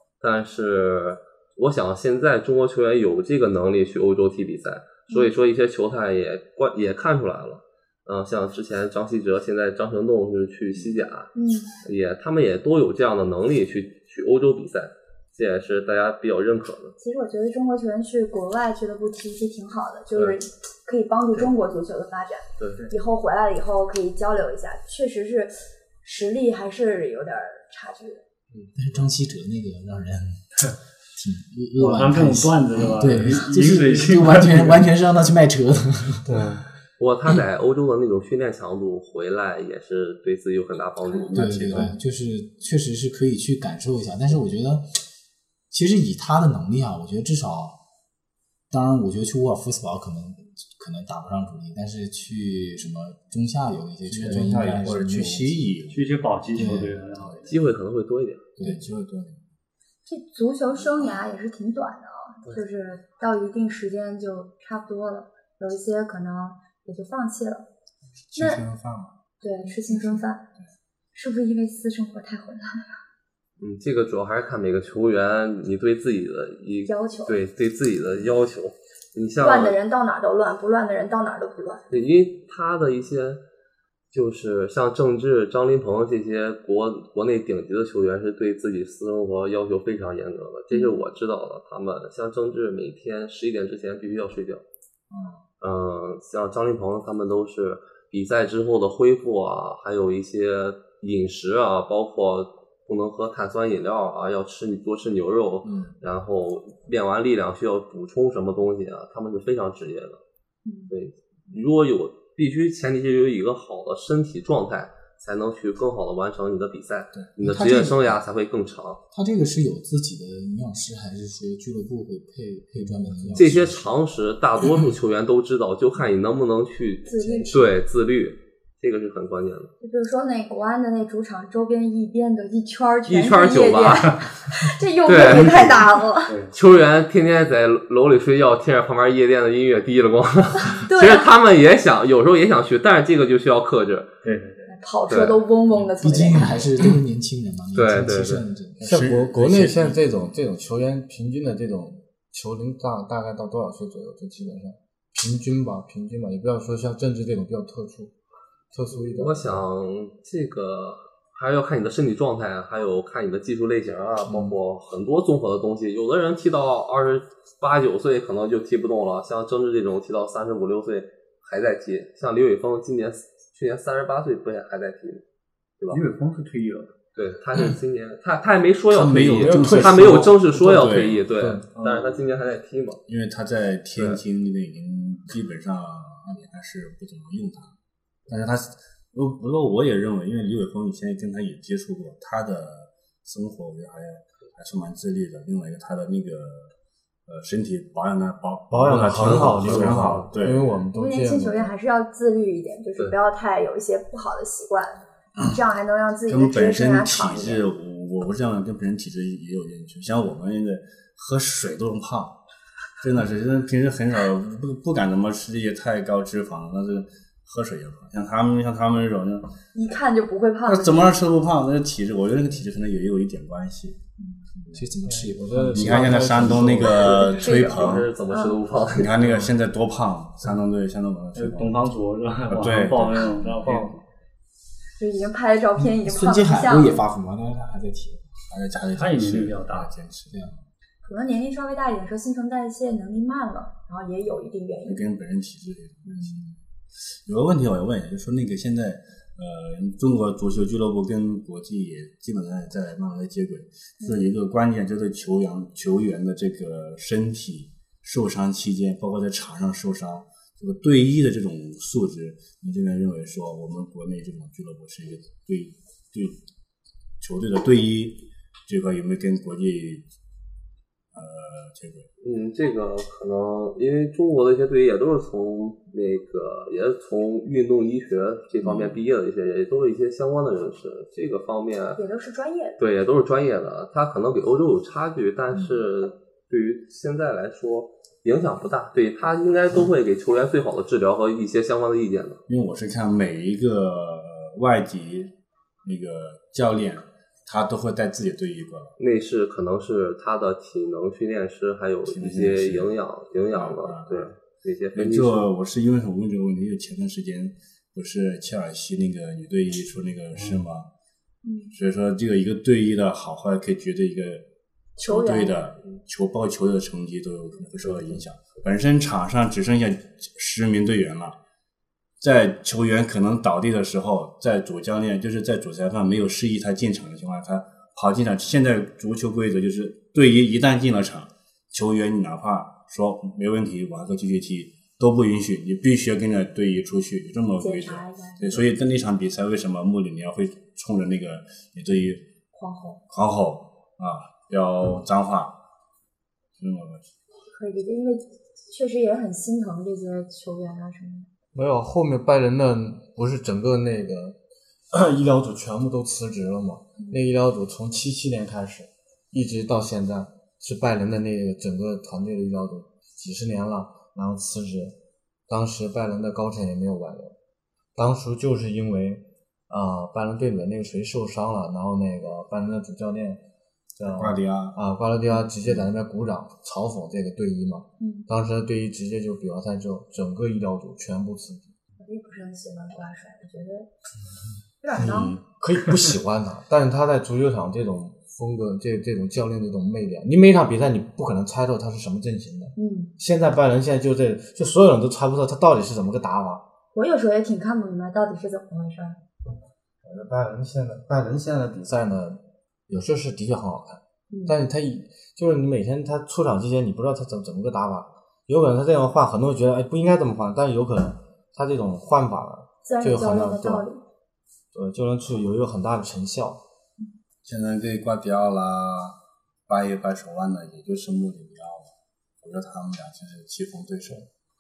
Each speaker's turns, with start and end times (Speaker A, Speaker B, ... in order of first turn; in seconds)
Speaker A: 0.2-16.9, 22.6-22.8, 37.0-41.9, 57.5-58.4, 73.6-79.8, 81.9-83.4, 84.1-94.6, 95.6-110.2, 110.9-119.0, 123.3-129.7, 133.1-134.1, 135.1-135.9, 136.5-144.1, 145.1-145.4, 147.7-148.4, 159.1-175.2, 177.2-183.0, 199.2-200.5, 226.8-229.1, 272.2-282.0, 282.8-292.4, 299.0-305.5
Speaker B: 11.3-11.7, 17.0-28.2, 60.1-67.7, 68.4-68.6, 69.4-70.4, 71.1-73.0, 76.9-77.4, 79.4-81.8, 90.7-91.0, 110.6-110.9, 127.1-127.7, 129.8-136.3, 140.7-141.3, 144.7-146.6, 200.9-207.6, 219.7-221.2, 227.4-227.8, 228.3-228.6, 235.0-237.0, 241.0-245.0, 282.0-282.8, 311.4-311.7, 315.0-315.6, 337.6-338.6, 342.5-343.0, 347.5-351.3, 378.0-378.3, 382.0-383.9, 384.8-385.3, 392.8-393.1, 396.9-399.2, 404.3-404.6, 412.8-414.0
Speaker C: 28.7-30.4, 31.1-36.4, 41.3-45.0, 45.7-47.8, 48.7-55.8, 56.5-57.0, 58.6-58.8, 117.4-118.2, 119.1-123.8, 127.2-127.5, 146.0-148.8, 224.7-227.2, 235.8-238.3
Speaker D: 31.8-34.8, 54.2-54.9, 55.9-57.6, 136.3-136.5, 144.2-144.7, 175.9-176.9, 181.7-182.3, 231.3-234.0, 238.9-239.9
Speaker E: 36.2-36.6, 148.8-158.1, 158.7-159.6, 179.2-181.6, 198.7-201.7, 225.1-227.1, 351.6-354.4, 354.9-364.9, 365.5-367.4, 367.9-373.4, 374.0-381.7, 385.5-396.6, 400.0-413.9, 414.7-416.6
Speaker F: 41.0-41.9, 54.1-56.9, 58.6-59.4, 68.3-69.1, 123.2-123.8, 148.8-150.4, 178.9-181.2, 183.1-187.8, 188.3-196.7, 197.3-200.8, 206.3-212.4, 213.0-219.5, 220.7-224.0, 224.6-224.8, 225.7-228.1, 228.9-231.9, 232.5-234.0, 238.5-240.6, 244.9-246.6, 247.2-266.4, 267.2-270.1, 271.1-272.1, 278.6-279.0, 292.5-295.3, 295.8-298.9, 302.1-302.9, 303.5-304.3, 304.9-310.9, 311.7-314.4, 315.0-321.4, 322.2-342.2, 343.1-345.6, 346.6-347.0, 374.1-375.9, 384.9-385.4, 417.4-424.3